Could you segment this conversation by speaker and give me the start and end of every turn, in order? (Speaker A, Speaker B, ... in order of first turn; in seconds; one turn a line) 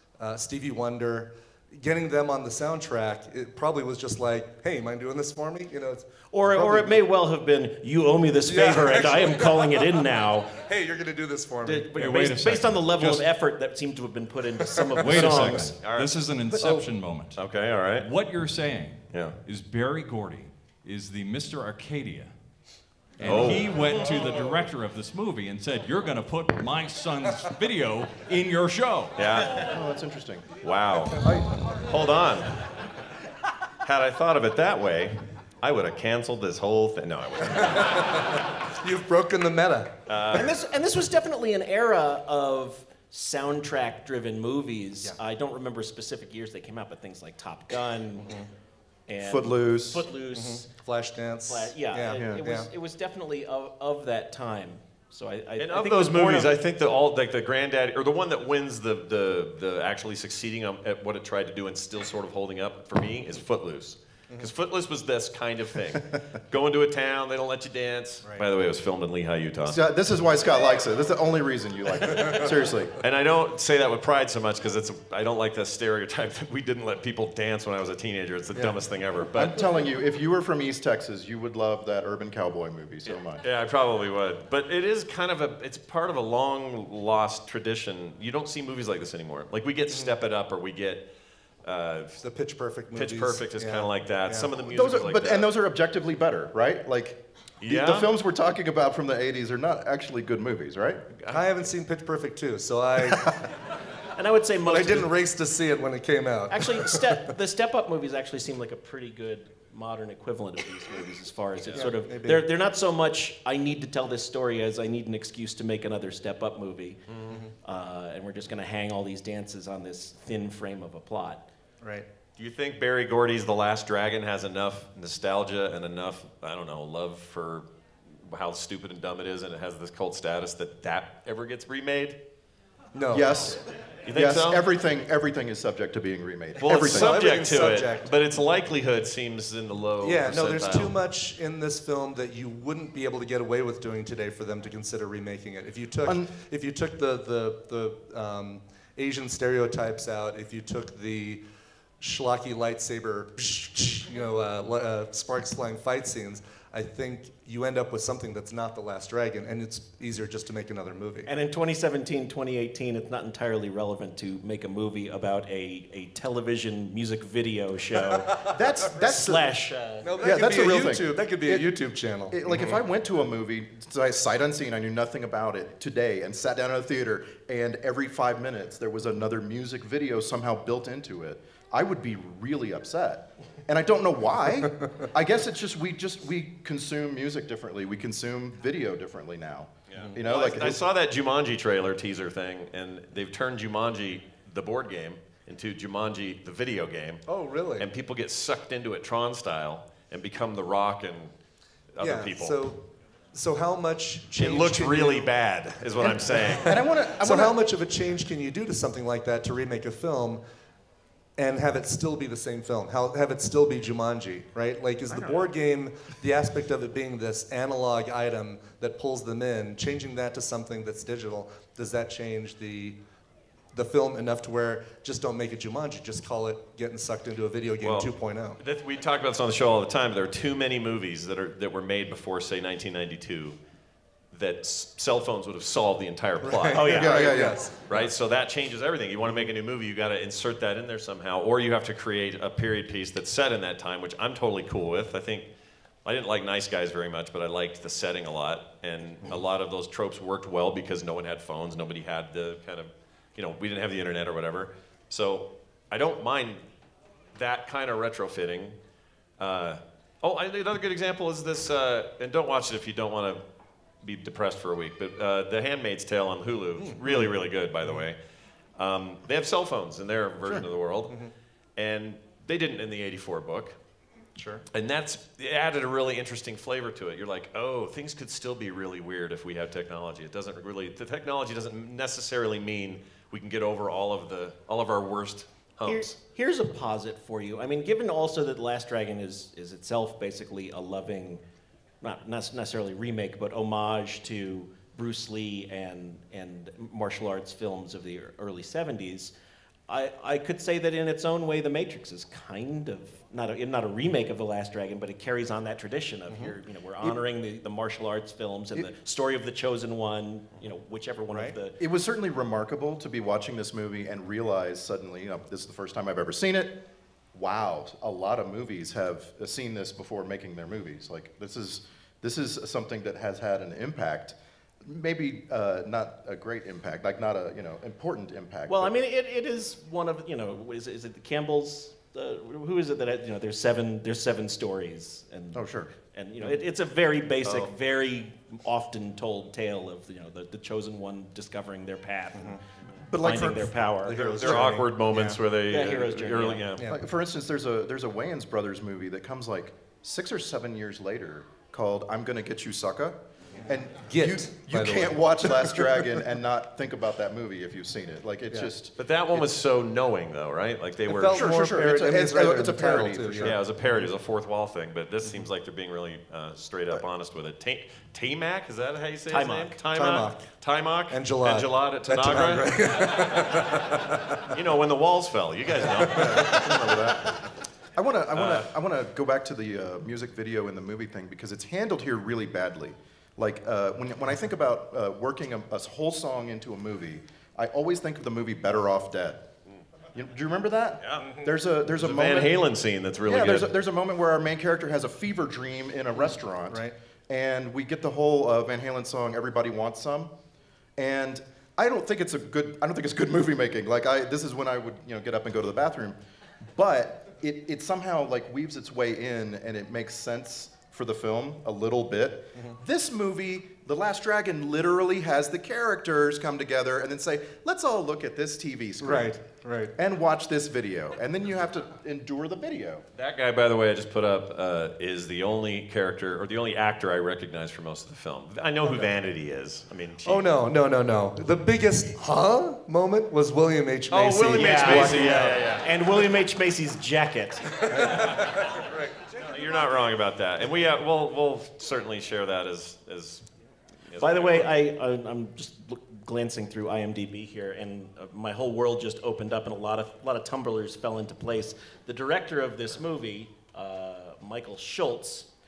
Speaker A: 0.2-7.0
Speaker B: 6.3-10.5
Speaker A: 8.4-9.8
Speaker A: 10.6-11.9
Speaker B: 11.6-15.7
Speaker C: 11.9-13.2
Speaker A: 14.7-15.4
Speaker C: 15.0-17.4
Speaker D: 15.6-16.1
Speaker A: 16.5-16.9
Speaker D: 17.4-18.1
Speaker C: 18.0-22.3
Speaker D: 19.1-19.4
Speaker C: 23.2-29.1
Speaker D: 23.2-23.8
Speaker D: 29.2-29.7
Speaker E: 29.6-30.5
Speaker D: 30.6-31.2
Speaker A: 31.2-31.5
Speaker D: 31.7-32.5
Speaker D: 33.8-38.1
Speaker A: 37.7-38.2
Speaker A: 38.8-39.9
Speaker D: 40.1-40.5
Speaker B: 40.3-48.3
Speaker A: 48.2-48.5
Speaker B: 49.1-50.6
Speaker E: 49.2-50.0
Speaker A: 50.3-52.7
Speaker B: 51.5-56.6
Speaker D: 55.6-69.8
Speaker E: 69.7-72.9
Speaker A: 72.1-72.5
Speaker D: 73.0-79.6
Speaker E: 78.5-78.8
Speaker E: 79.3-83.4
Speaker D: 83.0-91.0
Speaker A: 89.9-90.2
Speaker D: 91.6-92.2
Speaker A: 92.2-94.5
Speaker D: 92.9-95.5
Speaker E: 94.6-101.0
Speaker D: 97.6-98.1
Speaker D: 101.2-101.4
Speaker A: 101.3-103.3
Speaker B: 104.2-105.1
Speaker A: 104.6-107.2
Speaker B: 106.5-117.0
Speaker A: 111.7-112.5
Speaker D: 117.1-117.4
Speaker B: 117.6-121.4
Speaker A: 121.8-122.1
Speaker D: 122.4-132.2
Speaker A: 132.9-133.5
Speaker E: 133.1-133.6
Speaker D: 134.0-134.6
Speaker E: 134.1-137.2
Speaker D: 136.6-140.9
Speaker A: 136.6-138.1
Speaker A: 140.0-151.4
Speaker A: 152.0-161.3
Speaker B: 161.3-170.1
Speaker E: 168.5-169.5
Speaker A: 170.0-172.8
Speaker E: 170.2-171.7
Speaker E: 172.3-190.8
Speaker D: 189.9-197.2
Speaker A: 197.3-197.9
Speaker D: 197.8-201.3
Speaker D: 201.9-202.6
Speaker A: 202.0-202.8
Speaker A: 203.3-205.3
Speaker D: 204.4-206.7
Speaker E: 206.0-207.6
Speaker A: 206.3-210.4
Speaker A: 211.4-223.0
Speaker A: 223.7-228.6
Speaker D: 227.8-233.6
Speaker D: 234.3-245.5
Speaker A: 236.4-237.7
Speaker E: 236.8-237.6
Speaker D: 246.0-256.6
Speaker D: 257.3-258.8
Speaker D: 259.4-263.4
Speaker D: 264.0-268.2
Speaker A: 266.8-267.3
Speaker D: 268.8-271.1
Speaker A: 271.1-271.3
Speaker D: 271.8-273.7
Speaker A: 274.4-274.6
Speaker D: 274.7-286.1
Speaker B: 285.9-291.4
Speaker B: 292.0-299.3
Speaker B: 299.9-311.8
Speaker A: 306.3-306.5
Speaker E: 311.8-316.7
Speaker E: 317.3-328.9
Speaker B: 328.7-342.6
Speaker E: 335.5-335.9
Speaker E: 343.1-343.7
Speaker B: 343.1-344.6
Speaker A: 344.0-345.4
Speaker D: 344.2-346.8
Speaker B: 345.7-346.6
Speaker A: 346.8-347.0
Speaker E: 346.9-358.9
Speaker A: 354.0-356.2
Speaker D: 359.0-361.5
Speaker A: 361.1-363.6
Speaker E: 361.3-363.6
Speaker D: 363.4-373.3
Speaker B: 369.3-369.8
Speaker A: 369.9-370.4
Speaker A: 371.1-374.4
Speaker D: 374.5-376.5
Speaker A: 376.0-376.5
Speaker E: 376.1-377.3
Speaker E: 377.9-389.4
Speaker D: 378.3-378.7
Speaker E: 390.1-392.6
Speaker D: 391.0-391.3
Speaker D: 391.9-393.7
Speaker E: 393.2-400.3
Speaker A: 396.2-396.9
Speaker E: 401.0-406.2
Speaker E: 406.7-419.3
Speaker A: 419.0-419.9
Speaker E: 420.0-423.0
Speaker D: 423.1-430.4
Speaker A: 430.2-435.6
Speaker D: 434.1-435.9
Speaker B: 434.5-438.2
Speaker A: 437.9-439.1
Speaker D: 438.0-438.5
Speaker D: 439.4-443.4
Speaker D: 444.1-444.7
Speaker B: 444.2-455.4